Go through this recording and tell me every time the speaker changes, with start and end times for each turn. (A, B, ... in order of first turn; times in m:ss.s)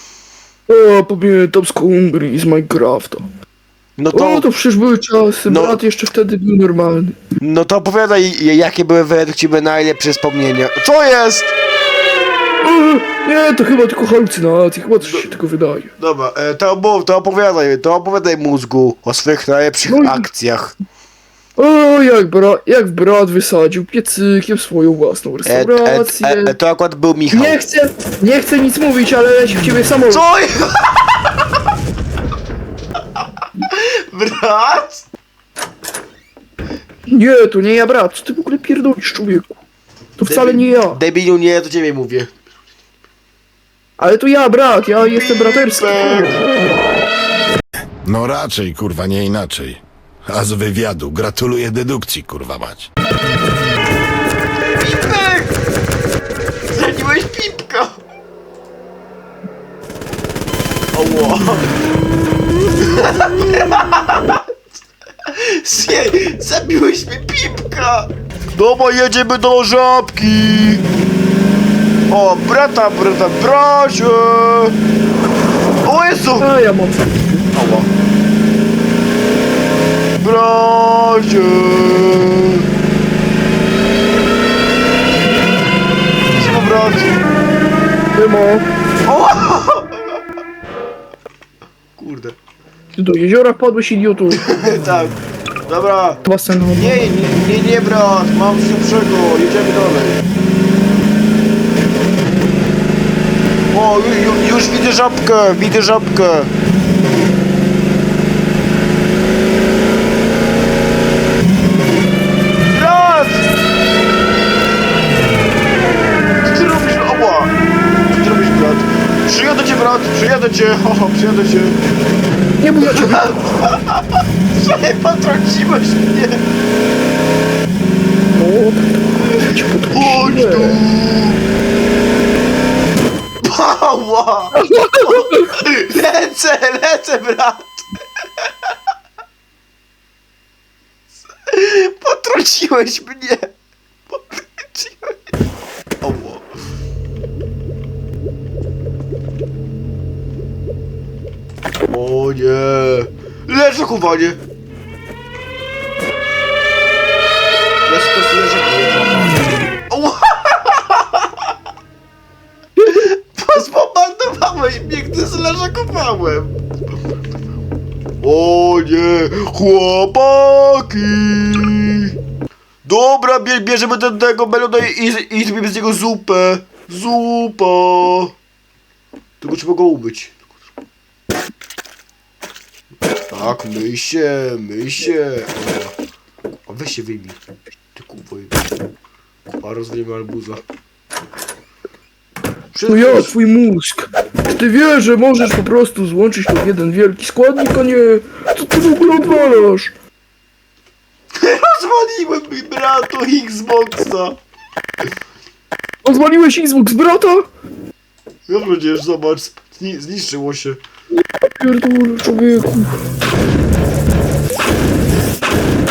0:00.7-0:03.2 A
0:04.0-0:04.5 B
0:04.1-0:07.2 A
0:05.5-0:05.8 B
0:07.4-0:11.5 B
0:12.6-0:15.9 A
0:15.0-0:15.3 B
0:16.0-0:20.8 B
0:19.9-0:20.3 A
0:21.6-0:26.5 A
0:25.4-0:27.6 B
0:27.3-0:30.2 A
0:30.1-0:31.1 B
0:33.8-0:35.0 B
0:37.1-0:39.5 A
0:40.2-0:41.0 A
0:40.2-0:42.3 B
0:44.0-0:46.4 A
0:45.0-0:46.4 B
0:48.0-0:52.9 C
0:54.8-0:55.6 B
0:56.7-0:58.0 B
1:00.9-1:01.7 B
1:02.8-1:04.4 B
1:05.3-1:10.8 B
1:12.1-1:14.8 B
1:15.8-1:16.5 B
1:16.4-1:17.2 A
1:17.5-1:17.9 B
1:20.2-1:22.6 B
1:26.4-1:27.2 B
1:28.2-1:28.7 A
1:29.0-1:29.9 B
1:32.0-1:32.4 B
1:33.0-1:34.4 A
1:34.3-1:36.2 B
1:36.2-1:37.1 A
1:36.8-1:40.2 B
1:43.7-1:46.5 B
1:52.7-1:53.5 B
1:56.4-1:57.5 B
1:58.1-2:01.8 B
2:02.6-2:03.3 A
2:02.8-2:04.0 B
2:04.5-2:06.4 B
2:08.3-2:10.8 A
2:09.9-2:11.4 B
2:13.4-2:17.9 B
2:14.6-2:15.4 A
2:21.5-2:23.5 B
2:24.1-2:25.1 B
2:26.0-2:26.4 B
2:31.9-2:34.4 B
2:37.9-2:41.1 B
2:42.9-2:46.6 B
2:48.2-2:52.1 B
2:52.8-2:58.3 B
2:59.4-3:00.4 B
3:03.3-3:06.0 B
3:06.7-3:07.4 B
3:08.0-3:08.6 B
3:09.6-3:10.6 B
3:12.7-3:13.3 B
3:12.9-3:19.9 A
3:21.4-3:24.4 B
3:26.0-3:27.4 A
3:28.5-3:30.8 B
3:31.4-3:33.0 A